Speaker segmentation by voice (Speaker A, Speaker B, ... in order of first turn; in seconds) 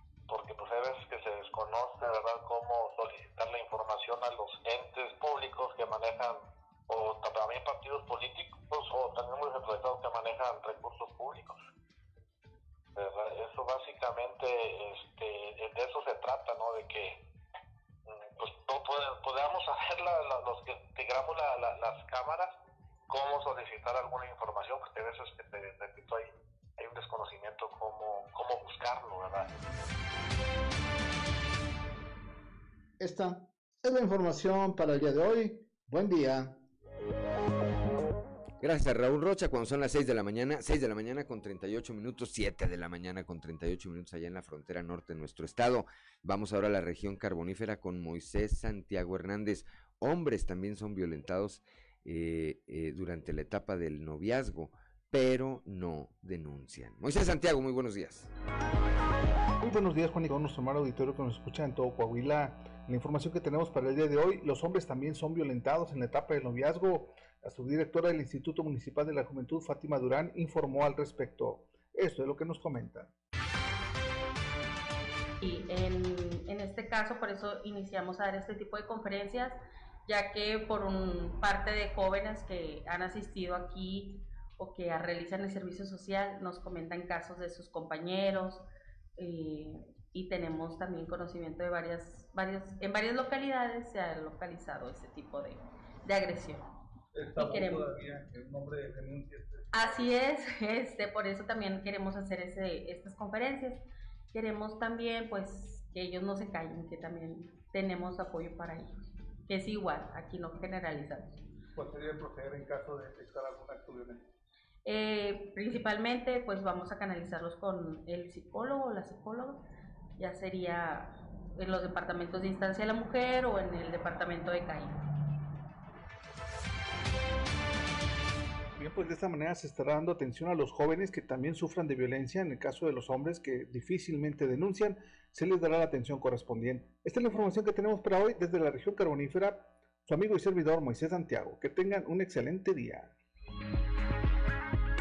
Speaker A: 0.3-6.4, 6.9-11.6, 12.9-17.2, 18.1-22.5, 23.1-29.6
Speaker B: 33.0-36.6
Speaker C: 38.6-58.3
Speaker D: 59.6-73.1, 97.2-99.6, 111.8-114.2, 128.8-143.1
Speaker E: 75.4-88.6, 89.2-96.7, 97.3-97.9, 99.7-108.9, 109.5-111.4, 114.8-119.6, 120.2-125.0